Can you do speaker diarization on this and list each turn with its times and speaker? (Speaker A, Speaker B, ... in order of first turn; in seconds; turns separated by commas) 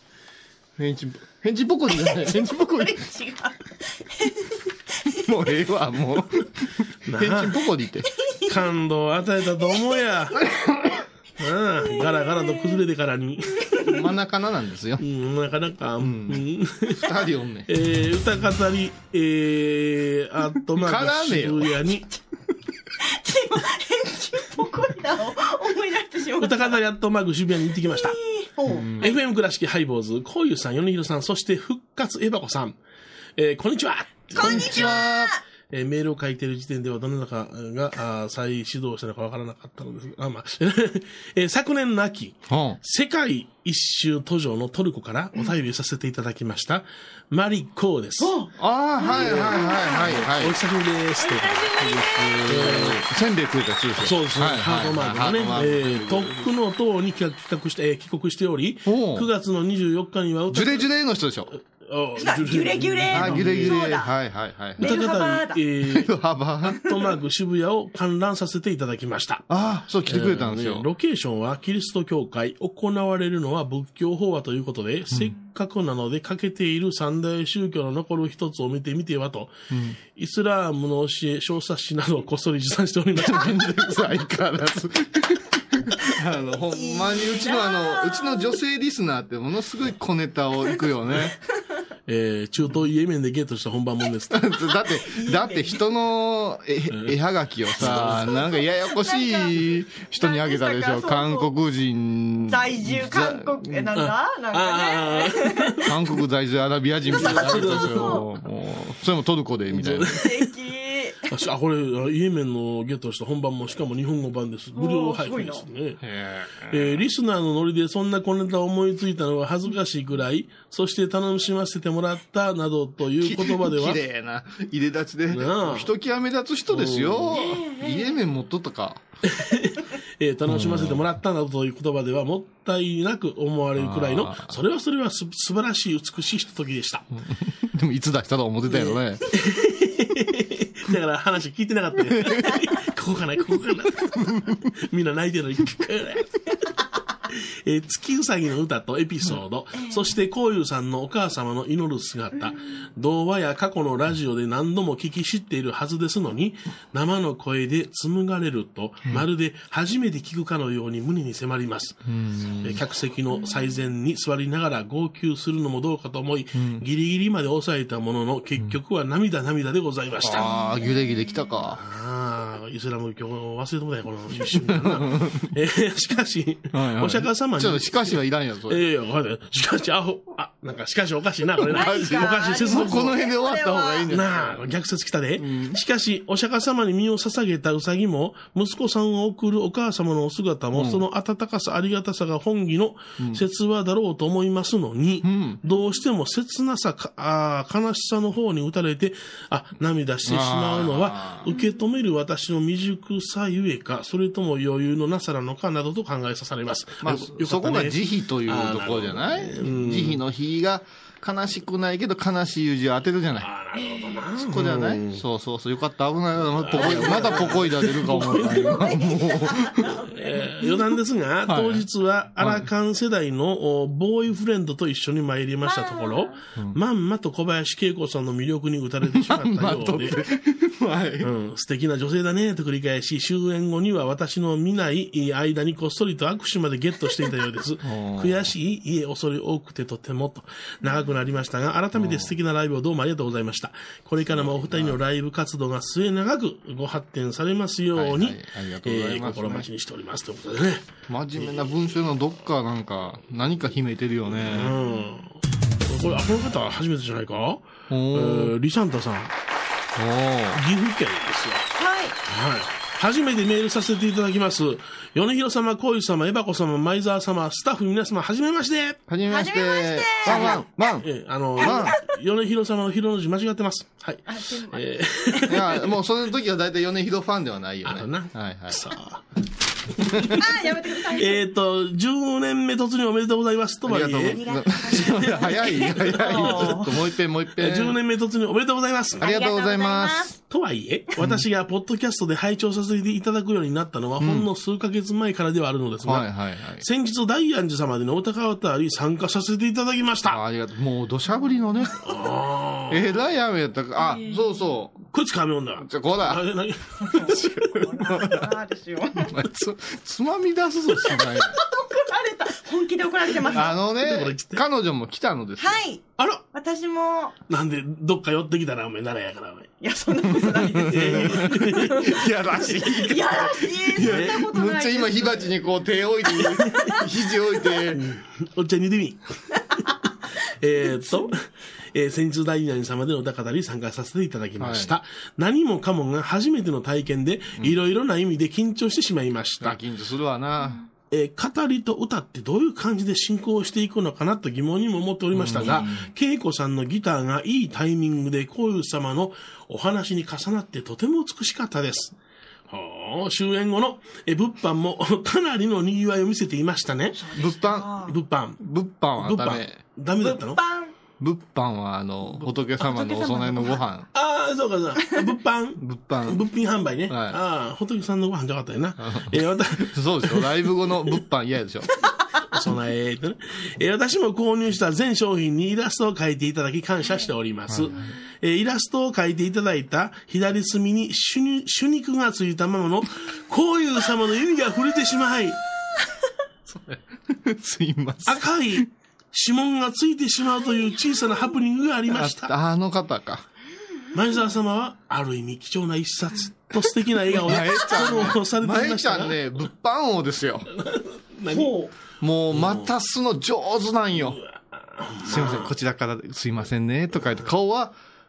Speaker A: 0.8-3.0, Speaker B: 2.8-4.5, Speaker A: 5.2-8.1, Speaker C: 7.1-7.6, Speaker C: 8.5-10.4, Speaker A: 10.5-10.9, Speaker C: 11.4-13.8, Speaker A: 13.8-15.0, Speaker C: 15.0-17.1, Speaker A: 16.0-16.4, Speaker A: 17.0-17.7, Speaker C: 17.7-22.1, Speaker A: 20.7-21.7, Speaker B: 23.1-26.8, Speaker C: 26.4-28.2, Speaker B: 27.9-29.1, Speaker A: 28.7-29.1, Speaker C: 29.0-32.8, Speaker C: 33.4-35.0, Speaker B: 34.4-35.4, Speaker A: 34.4-35.3, Speaker C: 35.7-48.4, Speaker A: 42.5-42.8, Speaker B: 48.2-50.1, Speaker A: 48.6-50.6, Speaker C: 49.1-53.0, Speaker B: 51.2-52.5, Speaker A: 52.4-56.5, Speaker C: 54.0-60.9, Speaker A: 58.9-59.3, Speaker A: 60.5-61.5, Speaker C: 61.8-63.8, Speaker B: 62.2-64.1, Speaker A: 63.1-65.0, Speaker B: 64.8-65.6, Speaker C: 64.8-66.1, Speaker A: 65.8-66.8, Speaker C: 66.7-69.4, Speaker A: 69.5-70.9, Speaker C: 70.1-79.5, Speaker A: 79.7-80.0, Speaker C: 80.2-83.7, Speaker A: 83.1-91.4, Speaker B: 86.8-88.5, Speaker C: 92.1-94.6, Speaker A: 94.3-103.9, Speaker B: 95.1-95.8, Speaker C: 96.9-97.2, Speaker C: 97.8-98.2, Speaker B: 98.9-99.6, Speaker B: 100.2-101.5, Speaker B: 102.5-105.8, Speaker C: 104.0-105.9, Speaker A: 105.8-110.1, Speaker C: 107.1-108.2, Speaker B: 107.3-108.2, Speaker C: 109.7-110.5, Speaker B: 110.2-111.3, Speaker C: 111.3-116.0, Speaker B: 114.8-115.7, Speaker A: 116.0-117.0, Speaker C: 116.7-124.0, Speaker A: 123.2-129.0, Speaker C: 125.3-125.9, Speaker C: 126.7-127.4, Speaker B: 127.3-128.2, Speaker C: 129.3-137.1, Speaker A: 130.5-131.0, Speaker A: 133.8-134.6, Speaker A: 137.2-139.3, Speaker C: 138.7-146.5, Speaker C: 147.3-162.0, Speaker A: 162.1-162.8, Speaker C: 162.6-170.5, Speaker A: 166.6-166.8, Speaker A: 170.2-171.8, Speaker C: 171.8-178.1, Speaker A: 174.5-175.5, Speaker A: 176.7-178.8, Speaker C: 178.7-183.2, Speaker A: 181.6-184.6, Speaker B: 181.7-184.1, Speaker C: 184.1-210.2, Speaker A: 185.4-185.8, Speaker A: 190.7-191.0, Speaker A: 193.2-193.4, Speaker A: 195.2-195.6, Speaker A: 200.3-201.4, Speaker A: 207.0-213.5, Speaker C: 213.4-215.2, Speaker B: 213.8-214.2, Speaker A: 214.4-219.9, Speaker C: 216.6-218.9, Speaker B: 218.5-220.3, Speaker C: 220.1-230.2, Speaker A: 221.5-221.8, Speaker A: 222.4-222.7, Speaker B: 225.7-226.3, Speaker A: 229.1-231.3, Speaker C: 231.2-251.7, Speaker A: 237.8-238.5, Speaker A: 241.9-242.3, Speaker A: 244.3-245.0, Speaker A: 247.9-249.7, Speaker A: 251.1-254.8, Speaker C: 254.4-255.3, Speaker C: 255.9-259.3, Speaker A: 257.9-258.5, Speaker A: 259.9-260.6, Speaker C: 260.5-261.7, Speaker B: 261.8-262.1, Speaker C: 262.3-269.0, Speaker A: 269.1-271.9, Speaker B: 269.3-270.6, Speaker C: 270.3-275.8, Speaker B: 274.3-274.8, Speaker A: 275.5-278.9, Speaker C: 277.9-279.2, Speaker C: 279.9-280.3, Speaker B: 280.4-281.5, Speaker C: 281.1-284.4, Speaker A: 283.9-288.0, Speaker B: 284.4-286.9, Speaker C: 287.6-289.3, Speaker B: 289.2-290.3, Speaker A: 289.2-290.4, Speaker C: 290.5-300.4, Speaker A: 294.2-294.5, Speaker A: 296.0-296.9, Speaker A: 300.3-302.1, Speaker C: 302.0-303.1, Speaker A: 302.9-305.0, Speaker B: 304.0-304.4, Speaker C: 305.1-307.7, Speaker A: 305.8-306.4, Speaker B: 307.0-309.3, Speaker A: 307.3-308.5, Speaker A: 309.3-311.6, Speaker B: 311.5-313.7, Speaker A: 313.5-315.8, Speaker C: 313.5-314.6, Speaker B: 315.6-317.3, Speaker C: 316.2-316.4, Speaker C: 317.5-319.7, Speaker B: 319.8-322.2, Speaker A: 320.4-328.1, Speaker C: 320.9-322.1, Speaker B: 322.8-325.5, Speaker C: 324.0-324.4, Speaker C: 326.6-326.9, Speaker C: 327.9-329.2, Speaker C: 330.6-339.8, Speaker A: 334.6-334.9, Speaker A: 339.6-340.8, Speaker C: 341.1-352.1, Speaker A: 345.3-346.1, Speaker C: 352.7-357.2, Speaker B: 357.1-358.1, Speaker A: 357.4-357.9, Speaker C: 358.1-358.6, Speaker A: 358.6-359.8, Speaker C: 359.2-360.6, Speaker B: 360.2-360.9, Speaker A: 361.2-364.1, Speaker B: 362.8-363.8, Speaker C: 364.1-370.5, Speaker A: 365.8-366.4, Speaker A: 367.1-367.4, Speaker A: 369.0-371.9, Speaker C: 372.5-385.6, Speaker A: 386.7-388.9, Speaker C: 388.3-392.5, Speaker A: 392.1-393.4, Speaker C: 394.1-399.4, Speaker A: 397.3-400.7, Speaker C: 400.8-401.7, Speaker B: 401.5-401.9, Speaker A: 402.2-404.4, Speaker C: 402.5-402.9, Speaker C: 404.2-405.7, Speaker A: 405.2-407.9